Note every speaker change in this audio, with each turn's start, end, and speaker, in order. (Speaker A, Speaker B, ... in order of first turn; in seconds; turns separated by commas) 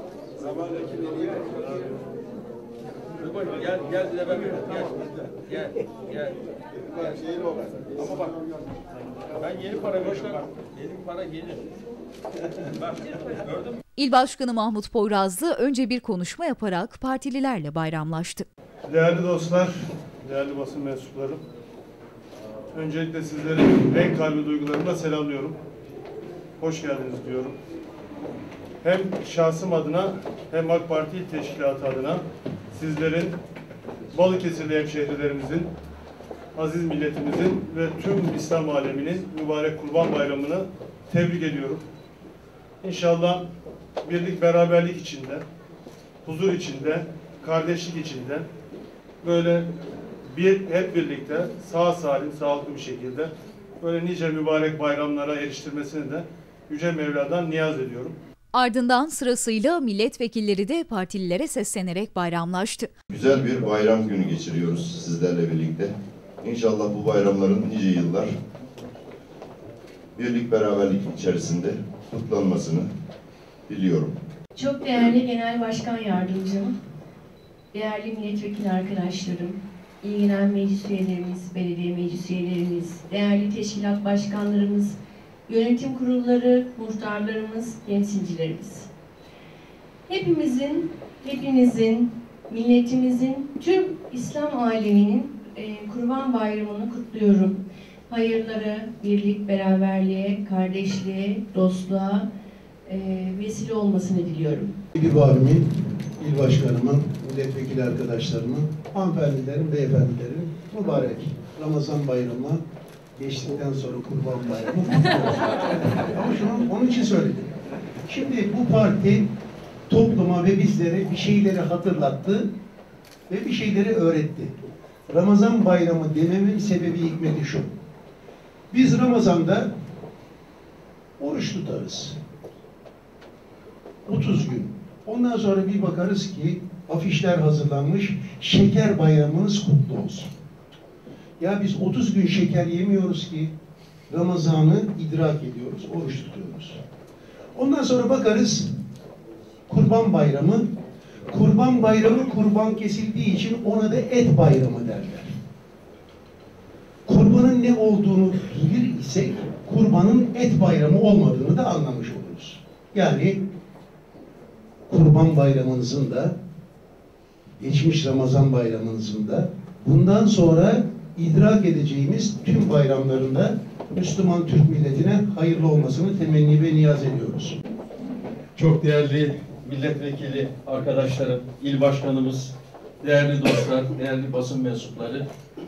Speaker A: 3.2-6.4, Speaker A: 6.9-8.3, Speaker A: 9.3-11.6, Speaker A: 12.8-13.8, Speaker B: 13.9-18.5, Speaker C: 18.9-19.7, Speaker C: 20.2-21.4, Speaker C: 22.7-25.6, Speaker C: 26.6-27.6, Speaker C: 28.8-33.4, Speaker C: 34.1-35.7, Speaker C: 36.5-41.8, Speaker C: 42.8-43.5, Speaker C: 44.0-45.4, Speaker C: 46.2-48.5, Speaker C: 49.2-49.7, Speaker C: 50.3-58.2, Speaker B: 58.5-62.9, Speaker D: 63.1-68.3, Speaker D: 70.2-72.9, Speaker D: 73.7-74.2, Speaker E: 74.5-76.8, Speaker E: 77.7-88.9, Speaker E: 90.1-102.3, Speaker E: 102.8-104.7, Speaker F: 105.0-112.6, Speaker F: 113.2-117.5, Speaker F: 118.0-119.3, Speaker F: 119.9-122.5, Speaker F: 123.3-124.6, Speaker F: 125.1-127.7, Speaker F: 128.7-129.7, Speaker F: 131.2-132.2, Speaker F: 134.1-140.3, Speaker F: 141.4-143.5, Speaker F: 144.1-146.8, Speaker F: 147.5-148.7, Speaker F: 149.7-150.6, Speaker F: 151.3-155.3, Speaker F: 157.1-163.4, Speaker F: 164.9-166.3, Speaker F: 167.6-177.6, Speaker A: 178.6-185.2